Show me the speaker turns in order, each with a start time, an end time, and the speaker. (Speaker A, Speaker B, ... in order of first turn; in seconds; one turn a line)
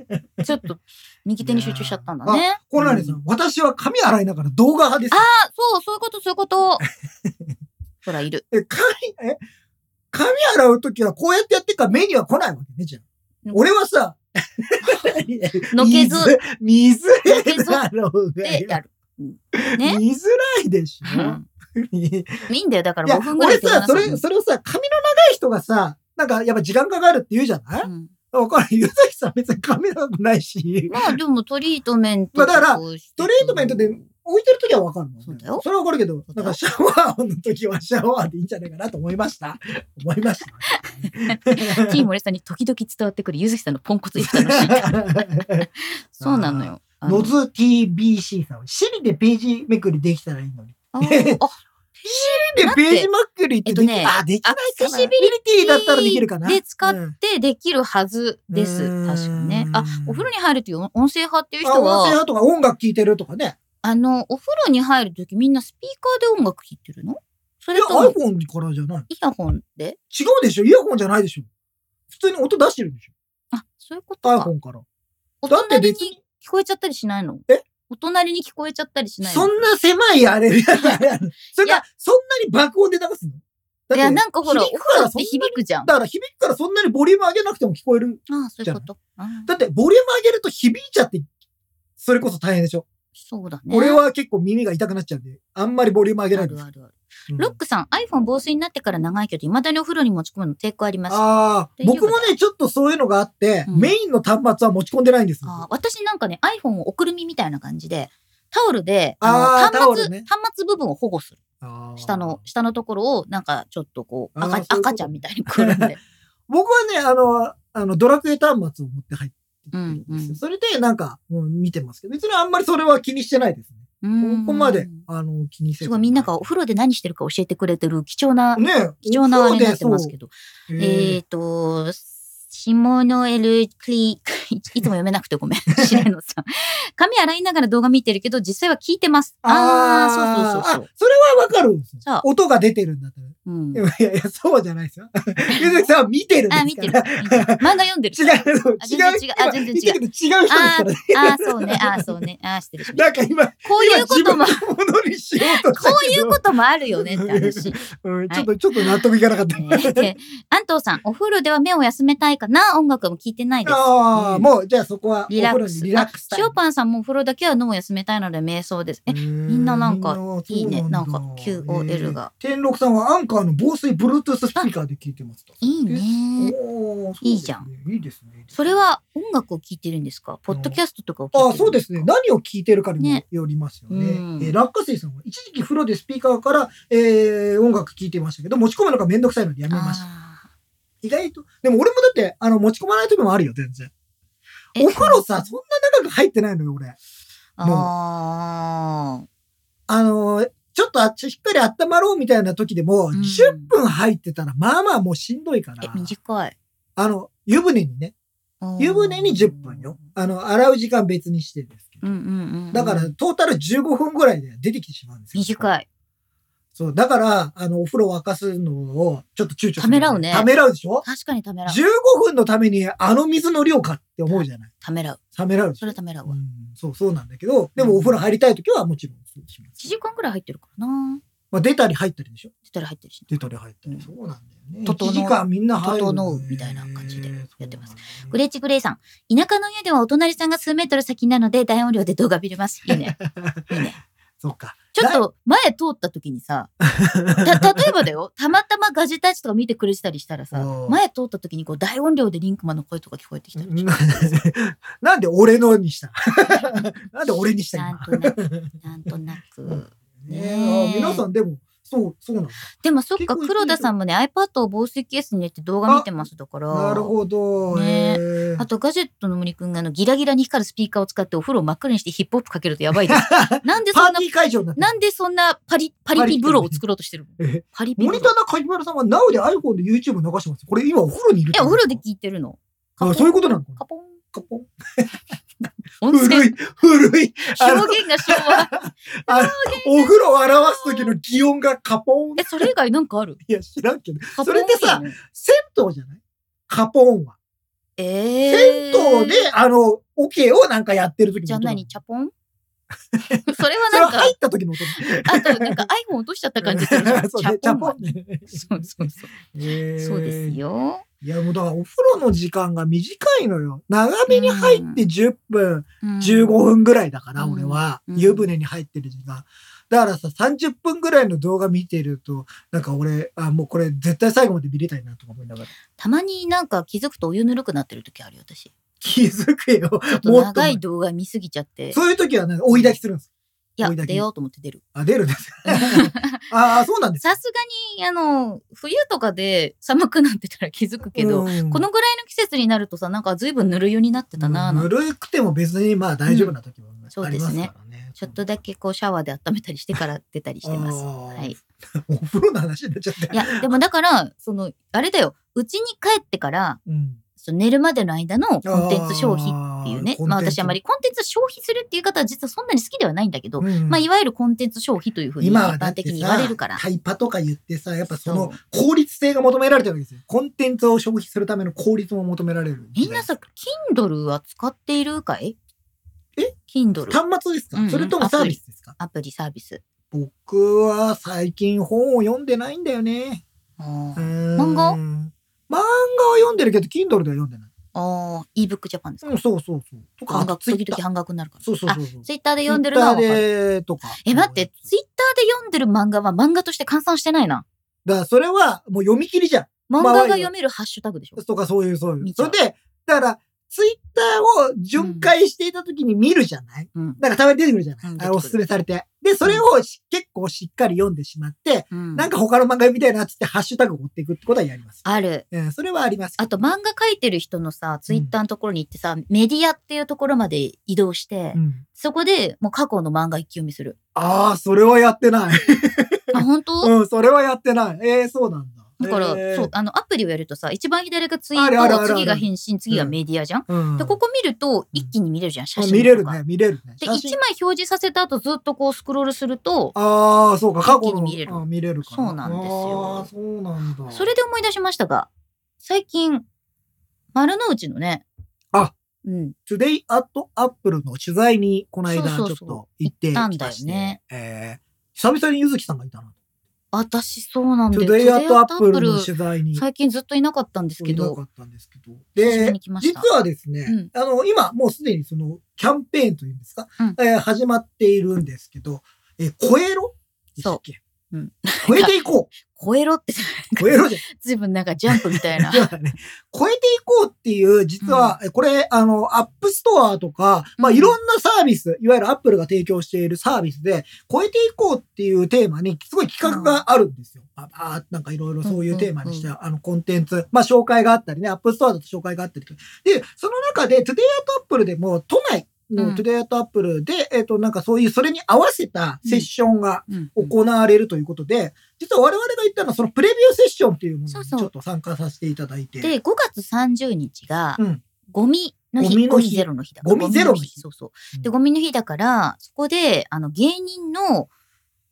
Speaker A: 0.4-3.2
Speaker B: 1.4-5.3
Speaker A: 5.1-6.8
Speaker B: 6.9-7.5
Speaker A: 8.0-8.4
Speaker B: 8.5-9.4
Speaker B: 10.1-18.8
Speaker A: 15.7-16.4
Speaker A: 17.3-17.8
Speaker A: 18.4-20.0
Speaker B: 19.5-22.5
Speaker A: 21.0-21.5
Speaker A: 22.5-24.2
Speaker B: 23.1-31.0
Speaker A: 27.8-28.1
Speaker A: 30.9-34.0
Speaker B: 32.4-42.0
Speaker A: 35.3-35.6
Speaker A: 36.3-36.6
Speaker A: 40.8-47.4
Speaker B: 44.2-45.7
Speaker B: 46.2-51.4
Speaker A: 50.9-53.1
Speaker B: 52.1-57.1
Speaker A: 53.7-62.2
Speaker B: 58.5-60.3
Speaker B: 61.6-63.6
Speaker A: 63.8-68.2
Speaker B: 67.7-69.1
Speaker A: 69.1-70.0
Speaker B: 70.1-71.5
Speaker B: 72.1-73.1
Speaker A: 73.5-74.5
Speaker B: 74.2-74.8
Speaker A: 75.4-79.5
Speaker B: 75.5-76.2
Speaker B: 79.2-88.8
Speaker A: 83.9-85.9
Speaker A: 88.3-89.5
Speaker B: 89.5-91.3
Speaker B: 92.0-92.9
Speaker A: 93.2-94.0
Speaker B: 93.7-96.6
Speaker A: 96.3-101.2
Speaker B: 97.3-97.5
Speaker B: 101.1-105.6
Speaker A: 101.8-102.3
Speaker A: 103.7-103.9
Speaker A: 105.4-111.4
Speaker B: 109.2-110.3
Speaker B: 111.6-112.4
Speaker A: 112.0-116.0
Speaker B: 114.4-116.0
Speaker B: 116.5-126.5
Speaker A: 119.7-120.4
Speaker A: 124.0-125.0
Speaker A: 125.8-140.9
Speaker B: 128.6-130.1
Speaker B: 130.7-131.2
Speaker B: 139.4-152.2
Speaker A: 143.4-143.8
Speaker A: 145.5-145.9
Speaker A: 146.5-154.7
Speaker B: 152.9-160.2
Speaker A: 155.4-159.0
Speaker A: 159.6-164.5
Speaker B: 163.7-166.5
Speaker A: 165.3-172.3
Speaker B: 169.1-178.8
Speaker A: 175.6-176.6
Speaker A: 177.2-177.7
Speaker A: 178.5-182.1
Speaker B: 180.5-180.8
Speaker B: 181.3-190.0
Speaker A: 183.9-184.6
Speaker A: 189.7-190.5
Speaker B: 191.0-193.9
Speaker A: 194.8-195.2
Speaker B: 194.8-197.0
Speaker A: 197.6-199.2
Speaker B: 197.6-197.9
Speaker B: 199.9-206.1
Speaker A: 203.1-203.7
Speaker A: 205.8-206.6
Speaker B: 207.0-208.1
Speaker A: 208.6-210.1
Speaker B: 208.8-212.0
Speaker A: 212.0-213.1
Speaker B: 212.7-215.7
Speaker A: 215.3-215.9
Speaker B: 216.8-221.1
Speaker A: 219.8-220.5
Speaker A: 221.0-221.8
Speaker B: 221.7-224.7
Speaker A: 224.3-225.2
Speaker B: 225.4-229.9
Speaker A: 225.8-226.4
Speaker A: 227.8-228.2
Speaker A: 229.8-231.2
Speaker B: 231.5-232.5
Speaker A: 232.7-234.1
Speaker B: 233.3-238.3
Speaker A: 234.8-243.2
Speaker B: 242.9-243.8
Speaker A: 243.7-244.0
Speaker B: 244.4-245.2
Speaker A: 245.0-246.7
Speaker B: 246.8-247.9
Speaker A: 247.4-254.4
Speaker B: 250.5-251.0
Speaker B: 253.6-258.7
Speaker A: 256.6-256.9
Speaker A: 257.7-261.2
Speaker B: 259.7-263.9
Speaker A: 262.8-267.1
Speaker B: 266.7-268.6
Speaker A: 267.7-278.3
Speaker B: 272.9-274.9
Speaker B: 276.1-276.8
Speaker B: 277.4-282.0
Speaker A: 281.5-284.2
Speaker B: 283.0-283.8
Speaker B: 284.3-285.3
Speaker A: 286.0-286.6
Speaker B: 286.1-292.7
Speaker A: 287.5-291.1
Speaker A: 292.4-293.4
Speaker B: 293.5-297.4
Speaker A: 294.4-295.2
Speaker A: 298.0-299.4
Speaker B: 298.5-301.9
Speaker A: 301.5-302.3
Speaker B: 303.1-305.9
Speaker A: 303.5-304.4
Speaker A: 304.9-309.4
Speaker B: 306.6-310.6
Speaker A: 310.0-311.1
Speaker B: 311.2-325.7
Speaker A: 314.3-315.1
Speaker A: 316.0-316.5
Speaker A: 317.4-318.5
Speaker A: 326.0-328.7
Speaker B: 329.0-330.8
Speaker A: 330.1-332.0
Speaker B: 331.9-333.3
Speaker A: 332.7-333.0
Speaker A: 333.8-334.8
Speaker B: 333.8-334.2
Speaker B: 334.9-337.3
Speaker A: 335.7-336.4
Speaker A: 337.2-344.9
Speaker B: 341.2-341.9
Speaker B: 344.4-348.4
Speaker A: 346.3-346.5
Speaker A: 347.1-351.6
Speaker B: 350.6-353.7
Speaker A: 353.3-356.8
Speaker B: 356.9-357.2
Speaker A: 357.4-366.8
Speaker B: 358.6-360.8
Speaker B: 363.6-364.0
Speaker B: 365.4-373.3
Speaker A: 368.2-368.6
Speaker A: 373.0-375.6
Speaker A: 376.7-377.2
Speaker B: 377.1-379.0
Speaker A: 377.7-379.8
Speaker B: 380.1-383.4
Speaker A: 383.8-385.0
Speaker B: 384.2-387.7
Speaker A: 387.9-389.4
Speaker B: 389.2-391.0
Speaker A: 390.3-393.4
Speaker B: 391.6-394.7
Speaker A: 394.2-397.6
Speaker B: 398.1-400.5
Speaker A: 399.9-401.4
Speaker B: 401.4-416.7
Speaker A: 402.2-402.6
Speaker A: 405.0-405.3
Speaker A: 406.9-407.2
Speaker A: 408.0-408.6
Speaker A: 411.9-412.3
Speaker A: 415.0-415.4
Speaker A: 416.4-424.0
Speaker B: 421.5-421.8
Speaker B: 424.1-429.7
Speaker A: 426.3-426.9
Speaker A: 429.0-436.4
Speaker B: 431.6-433.1
Speaker B: 433.7-434.2
Speaker B: 435.8-437.4
Speaker A: 437.0-439.9
Speaker B: 439.9-444.3
Speaker A: 440.9-443.3
Speaker A: 444.1-445.3
Speaker A: 445.8-446.5
Speaker A: 447.3-448.2
Speaker A: 449.2-449.6
Speaker B: 449.7-456.3
Speaker A: 452.1-454.2
Speaker A: 456.9-461.4
Speaker B: 457.9-459.8
Speaker B: 461.0-471.0
Speaker A: 462.4-463.3
Speaker A: 470.6-475.9
Speaker B: 471.8-472.5
Speaker B: 473.8-474.2
Speaker B: 475.1-506.1
Speaker A: 478.0-478.4
Speaker A: 480.8-481.2
Speaker A: 486.4-486.8
Speaker A: 488.6-489.5
Speaker A: 496.0-496.2
Speaker A: 500.1-500.5
Speaker A: 504.3-504.7
Speaker A: 506.0-514.5
Speaker B: 509.0-510.8